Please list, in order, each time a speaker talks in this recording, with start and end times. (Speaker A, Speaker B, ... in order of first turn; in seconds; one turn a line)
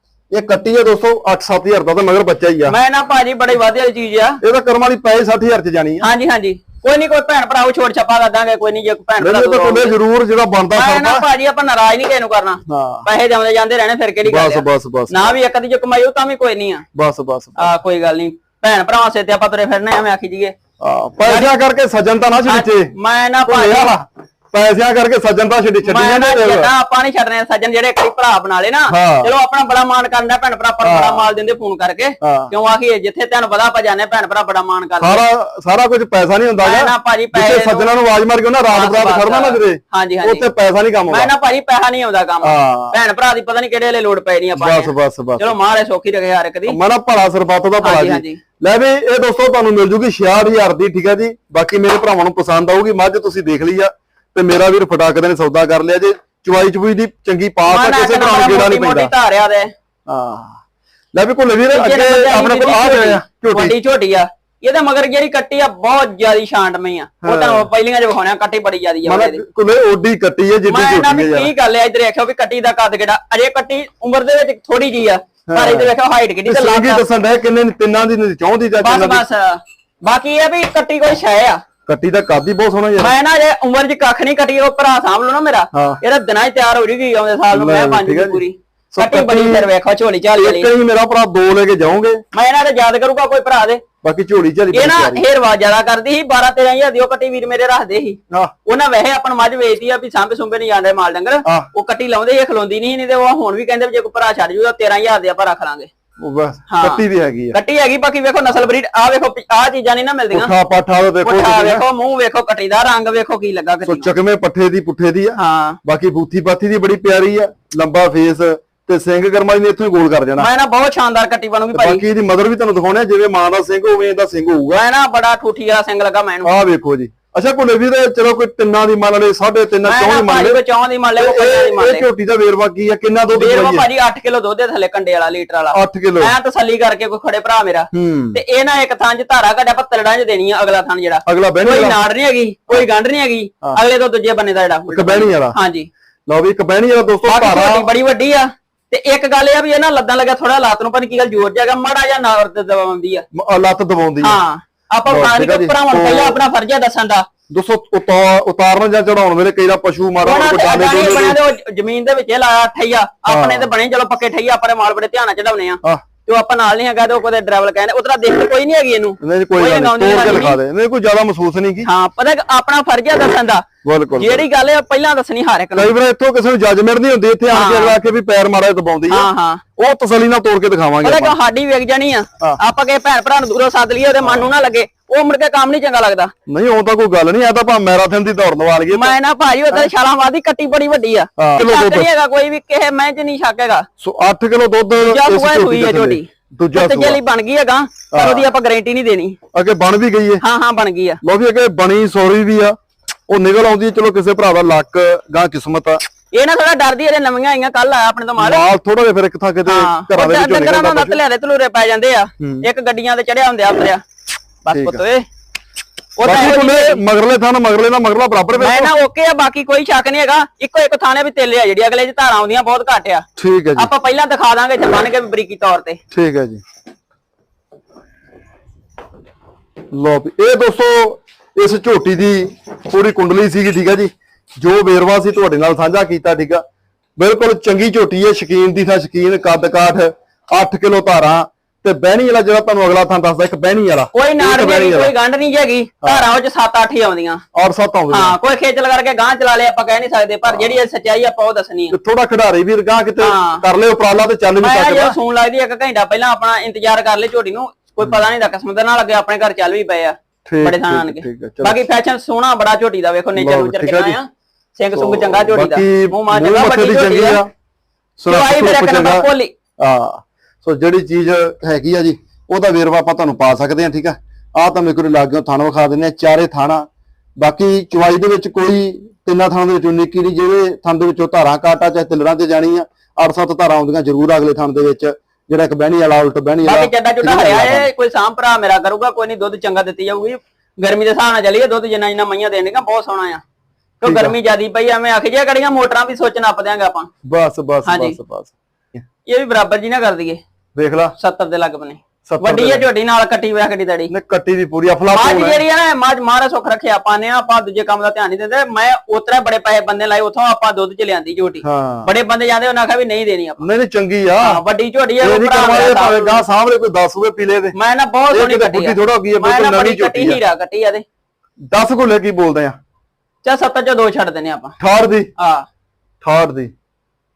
Speaker A: 0.3-2.8
Speaker B: 2.7-4.4
Speaker A: 4.4-6.1
Speaker B: 6.0-10.0
Speaker A: 9.2-11.2
Speaker B: 10.7-16.8
Speaker A: 12.7-13.1
Speaker A: 14.2-15.3
Speaker A: 16.9-17.7
Speaker B: 17.6-20.6
Speaker A: 20.8-22.9
Speaker B: 21.2-21.6
Speaker B: 22.5-23.9
Speaker A: 23.5-26.7
Speaker B: 25.8-35.2
Speaker A: 28.9-29.3
Speaker A: 30.8-31.3
Speaker A: 32.2-32.5
Speaker A: 35.0-41.3
Speaker B: 36.6-38.0
Speaker B: 38.7-40.5
Speaker B: 41.1-46.8
Speaker A: 42.4-43.0
Speaker A: 44.6-45.6
Speaker A: 46.7-59.1
Speaker B: 47.8-48.4
Speaker B: 57.7-59.7
Speaker A: 60.1-60.6
Speaker A: 61.1-63.8
Speaker B: 61.7-69.4
Speaker A: 67.2-67.7
Speaker A: 69.0-71.5
Speaker B: 70.7-77.0
Speaker A: 75.5-75.9
Speaker A: 76.5-79.2
Speaker B: 78.8-81.6
Speaker A: 81.9-83.2
Speaker B: 83.0-90.7
Speaker A: 85.7-86.0
Speaker A: 87.5-89.7
Speaker A: 90.3-92.2
Speaker B: 92.3-93.8
Speaker A: 94.0-95.2
Speaker B: 94.7-105.9
Speaker A: 106.2-107.6
Speaker B: 106.7-110.5
Speaker A: 110.3-111.8
Speaker B: 111.2-114.1
Speaker A: 113.9-120.5
Speaker B: 115.4-115.8
Speaker B: 120.4-122.0
Speaker A: 121.7-124.8
Speaker B: 124.7-126.5
Speaker A: 126.4-130.6
Speaker B: 129.8-132.1
Speaker A: 131.2-133.9
Speaker B: 133.3-145.9
Speaker A: 135.7-136.3
Speaker A: 137.9-138.4
Speaker A: 141.3-142.0
Speaker A: 144.9-145.6
Speaker A: 146.3-147.9
Speaker B: 147.3-153.3
Speaker A: 153.3-154.4
Speaker B: 154.2-157.3
Speaker A: 155.1-156.4
Speaker A: 157.5-161.4
Speaker B: 160.2-170.6
Speaker A: 163.3-163.7
Speaker A: 169.2-171.9
Speaker B: 171.8-175.9
Speaker A: 173.8-174.4
Speaker A: 175.8-181.4
Speaker B: 177.5-178.0
Speaker B: 179.1-179.6
Speaker B: 181.0-186.3
Speaker A: 184.2-184.5
Speaker A: 186.5-189.2
Speaker B: 188.9-193.9
Speaker A: 191.4-192.1
Speaker A: 194.0-197.2
Speaker B: 195.0-199.4
Speaker A: 198.1-198.5
Speaker A: 199.5-200.4
Speaker B: 200.4-201.2
Speaker A: 201.2-202.8
Speaker A: 203.3-206.0
Speaker B: 206.3-208.6
Speaker A: 208.4-211.2
Speaker B: 209.7-214.0
Speaker A: 212.4-212.7
Speaker B: 214.7-215.3
Speaker A: 214.7-215.0
Speaker B: 216.2-217.0
Speaker A: 216.2-218.9
Speaker B: 218.6-223.3
Speaker A: 223.4-223.9
Speaker B: 223.8-226.0
Speaker A: 226.1-226.6
Speaker A: 229.9-236.6
Speaker A: 237.2-245.1
Speaker B: 244.1-247.4
Speaker A: 246.0-246.3
Speaker A: 247.5-248.3
Speaker B: 248.1-251.9
Speaker A: 251.9-255.2
Speaker B: 253.2-253.6
Speaker B: 254.6-267.4
Speaker A: 260.5-261.8
Speaker A: 263.4-264.2
Speaker A: 264.9-267.5
Speaker A: 268.2-276.9
Speaker B: 268.3-269.5
Speaker A: 277.4-287.9
Speaker B: 286.6-293.4
Speaker B: 294.0-297.1
Speaker A: 294.0-294.4
Speaker A: 297.3-298.5
Speaker B: 297.9-298.2
Speaker B: 299.3-300.4
Speaker A: 300.8-301.1
Speaker B: 301.2-304.1
Speaker A: 302.3-302.9
Speaker A: 304.1-305.6
Speaker B: 305.1-313.6
Speaker A: 311.6-312.1
Speaker A: 313.6-314.6
Speaker B: 314.4-316.4
Speaker A: 315.2-317.8
Speaker B: 317.7-321.0
Speaker A: 318.3-320.4
Speaker A: 321.7-322.8
Speaker B: 323.4-324.8
Speaker A: 324.8-325.3
Speaker B: 325.4-325.7
Speaker A: 326.2-326.7